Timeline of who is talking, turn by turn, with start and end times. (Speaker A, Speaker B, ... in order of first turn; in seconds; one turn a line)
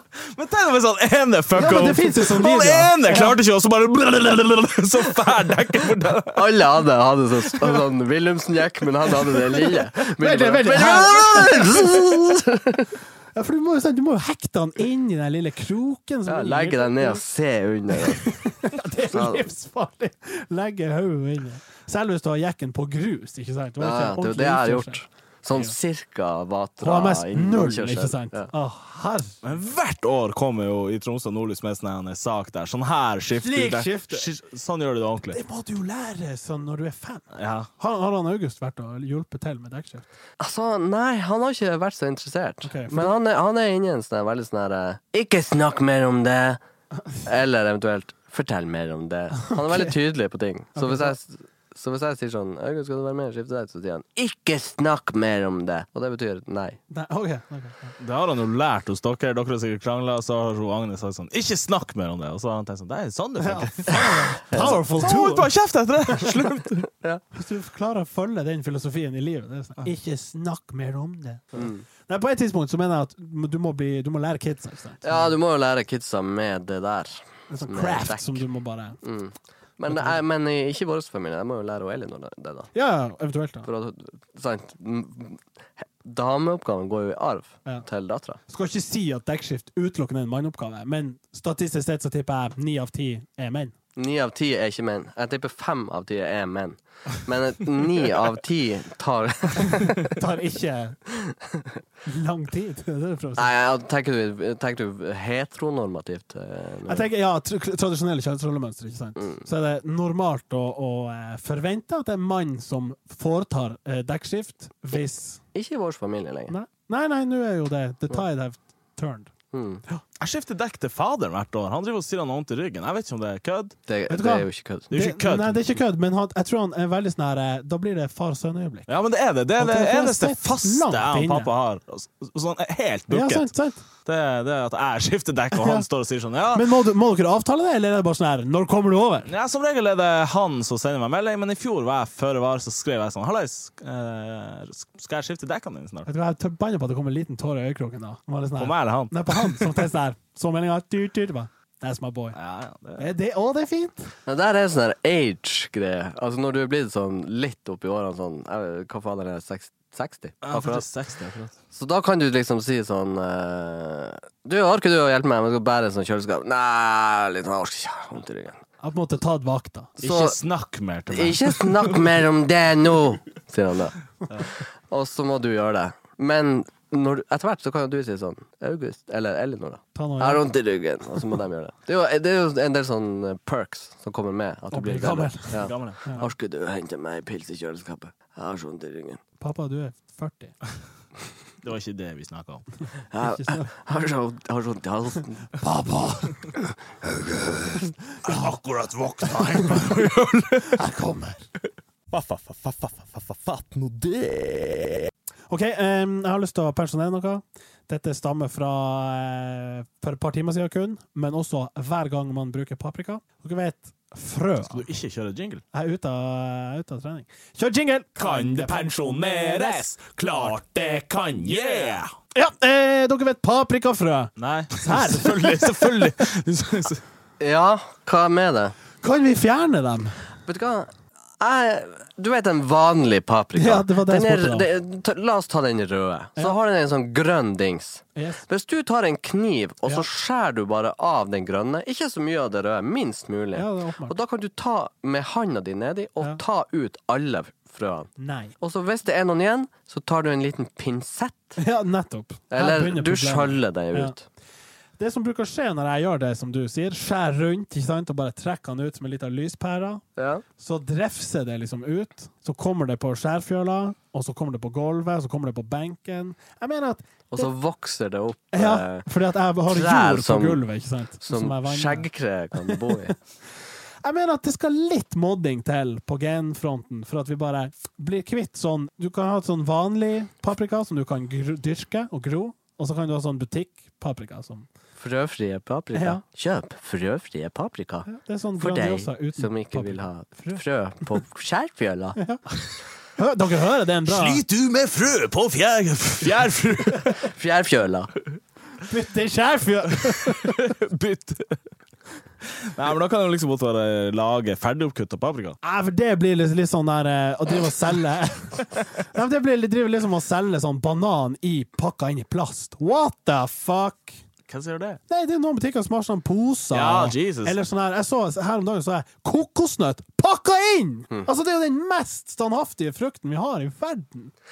Speaker A: 0.2-6.6
Speaker B: 1.6-3.4
Speaker C: 6.3-12.9
Speaker B: 9.6-12.1
Speaker A: 10.9-11.7
Speaker B: 13.3-17.2
Speaker C: 16.3-18.4
Speaker B: 17.9-25.0
Speaker C: 19.1-19.4
Speaker C: 23.8-28.5
Speaker B: 26.8-29.4
Speaker A: 29.4-35.4
Speaker B: 33.4-34.3
Speaker B: 35.3-40.1
Speaker A: 37.3-37.7
Speaker C: 40.4-46.6
Speaker B: 42.6-43.1
Speaker C: 47.2-56.8
Speaker B: 49.4-49.9
Speaker B: 50.8-51.1
Speaker B: 56.9-58.0
Speaker A: 58.0-66.9
Speaker B: 63.4-65.5
Speaker B: 67.3-75.3
Speaker C: 71.6-71.8
Speaker C: 75.0-78.4
Speaker B: 77.5-79.0
Speaker C: 79.0-82.7
Speaker B: 79.9-80.2
Speaker B: 82.7-83.7
Speaker C: 83.7-88.4
Speaker B: 88.5-93.8
Speaker C: 94.0-100.1
Speaker B: 99.7-101.0
Speaker C: 101.2-101.7
Speaker B: 102.0-103.5
Speaker C: 103.4-107.1
Speaker B: 106.9-115.4
Speaker C: 115.5-116.5
Speaker B: 116.5-119.3
Speaker C: 119.5-119.8
Speaker A: 120.2-123.8
Speaker C: 123.9-124.9
Speaker B: 124.1-128.9
Speaker A: 124.9-125.7
Speaker A: 128.9-133.5
Speaker B: 129.6-131.5
Speaker B: 133.1-133.8
Speaker A: 134.1-136.7
Speaker B: 135.5-135.9
Speaker B: 136.5-139.3
Speaker A: 139.3-146.1
Speaker B: 146.1-152.4
Speaker A: 148.6-149.8
Speaker A: 152.3-153.1
Speaker B: 153.0-154.1
Speaker C: 154.3-160.8
Speaker A: 160.4-161.6
Speaker C: 161.7-168.6
Speaker B: 168.8-170.0
Speaker A: 170.0-172.1
Speaker C: 170.0-170.4
Speaker C: 171.1-174.0
Speaker C: 174.9-189.2
Speaker B: 179.9-180.4
Speaker B: 184.7-186.3
Speaker A: 185.6-186.0
Speaker B: 189.4-190.6
Speaker A: 191.6-192.7
Speaker C: 193.1-195.4
Speaker B: 193.2-193.7
Speaker B: 195.6-196.5
Speaker A: 198.2-200.8
Speaker B: 200.7-201.5
Speaker A: 202.1-205.1
Speaker B: 205.5-214.8
Speaker A: 214.7-215.6
Speaker B: 215.7-219.8
Speaker A: 218.2-222.1
Speaker B: 222.3-226.1
Speaker A: 224.4-227.0
Speaker C: 227.4-228.8
Speaker B: 229.0-230.2
Speaker C: 230.5-251.6
Speaker B: 233.6-234.7
Speaker B: 238.2-238.4
Speaker B: 243.6-244.2
Speaker B: 248.2-248.6
Speaker B: 251.6-254.1
Speaker C: 252.5-254.2
Speaker B: 255.0-260.0
Speaker C: 260.2-260.4
Speaker B: 260.6-267.5
Speaker C: 267.3-269.1
Speaker B: 268.5-272.1
Speaker C: 269.7-270.6
Speaker C: 271.2-273.1
Speaker B: 272.7-272.9
Speaker B: 274.0-284.7
Speaker C: 285.0-292.2
Speaker B: 285.9-286.2
Speaker B: 288.1-290.6
Speaker B: 292.2-292.4
Speaker B: 293.2-294.4
Speaker A: 294.1-297.2
Speaker C: 297.1-298.1
Speaker B: 298.9-300.6
Speaker A: 300.1-301.6
Speaker A: 302.4-305.6
Speaker B: 305.6-314.2
Speaker A: 314.5-315.0
Speaker B: 315.1-324.3
Speaker A: 316.7-317.6